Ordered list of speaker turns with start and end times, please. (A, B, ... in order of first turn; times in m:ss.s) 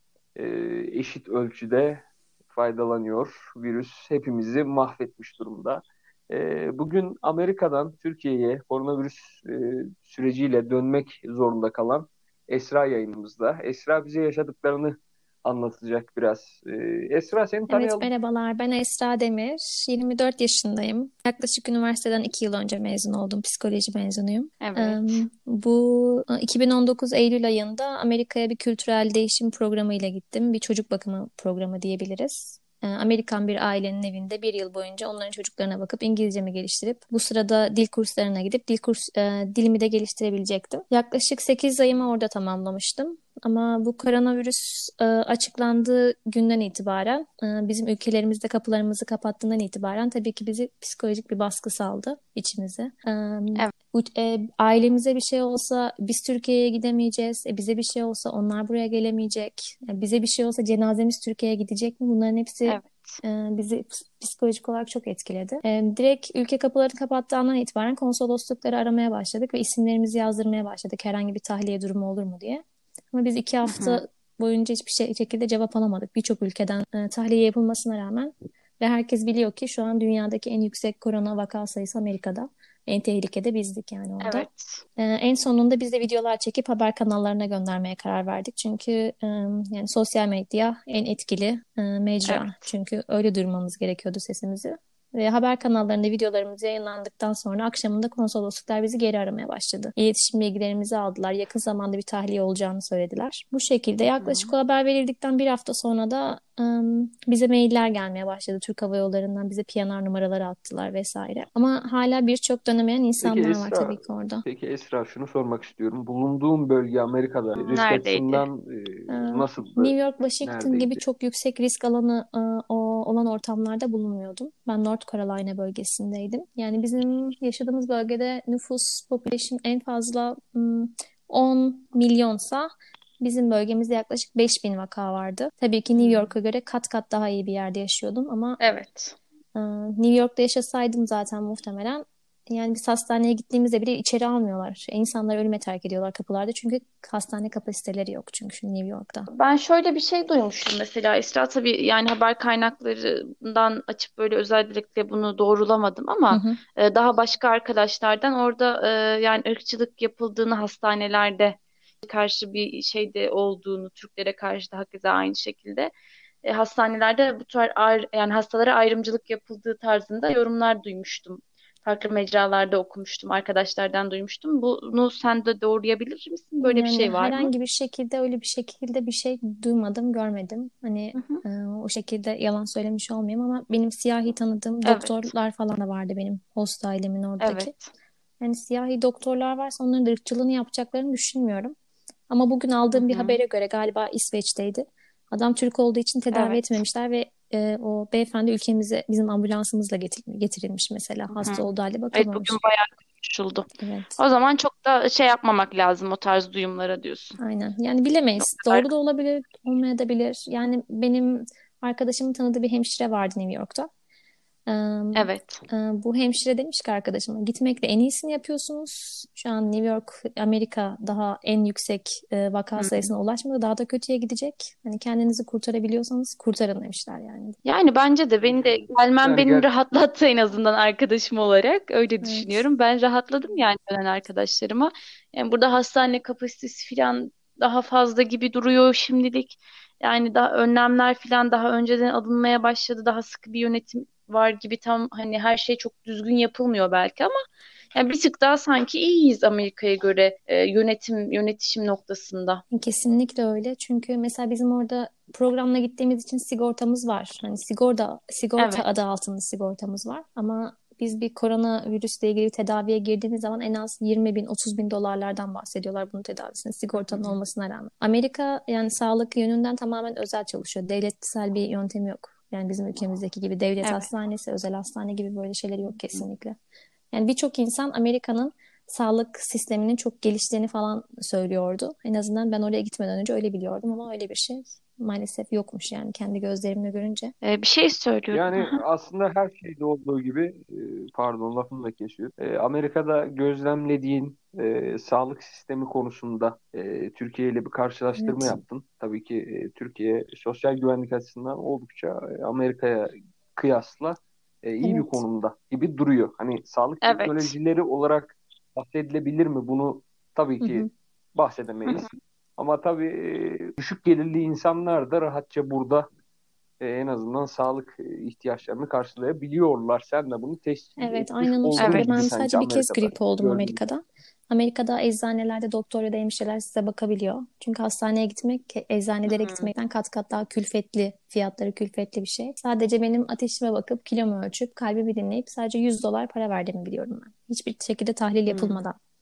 0:00.4-0:18.1 A
0:17.7-1:54.4 B
0:24.6-0:25.2 C
1:02.7-1:03.2 C
1:13.6-1:14.0 C
1:24.2-1:24.8 C
1:32.3-1:32.7 C
1:44.2-1:44.5 C
1:53.2-2:01.0 A
1:57.6-1:58.5 C
1:59.1-2:18.6 B
2:16.0-2:16.4 C
2:18.6-2:19.2 C
2:19.6-2:29.3 B
2:29.3-2:45.9 C
2:36.3-2:36.6 B
2:46.4-2:57.5 C
2:56.6-3:07.7 B
3:01.1-3:01.4 C
3:04.8-3:05.3 C
3:07.4-3:07.9 C
3:08.4-3:11.8 B
3:12.3-3:22.6 B
3:12.9-3:13.4 C
3:16.3-3:16.8 C
3:21.3-3:27.4 C
3:23.8-3:24.2 B
3:27.4-3:33.9 B
3:28.4-3:28.9 C
3:34.7-3:47.6 B
3:35.2-3:35.6 C
3:42.8-3:43.1 C
3:47.6-4:07.3 C
3:49.2-3:49.7 A
3:52.2-3:52.6 B
4:07.9-4:12.6 C
4:12.7-4:36.6 B
4:18.6-4:18.8 C
4:27.0-4:27.4 C
4:33.8-4:34.1 C
4:37.1-4:47.3 B
4:47.4-4:48.8 C
4:48.3-5:16.1 A
4:58.2-4:58.6 B
5:04.8-5:05.2 B
5:07.0-5:07.5 C
5:10.6-5:10.9 B
5:11.9-5:12.1 C
5:16.8-5:23.8 A
5:21.0-5:39.0 B
5:21.8-5:22.1 C
5:29.3-5:29.7 C
5:38.5-5:38.8 C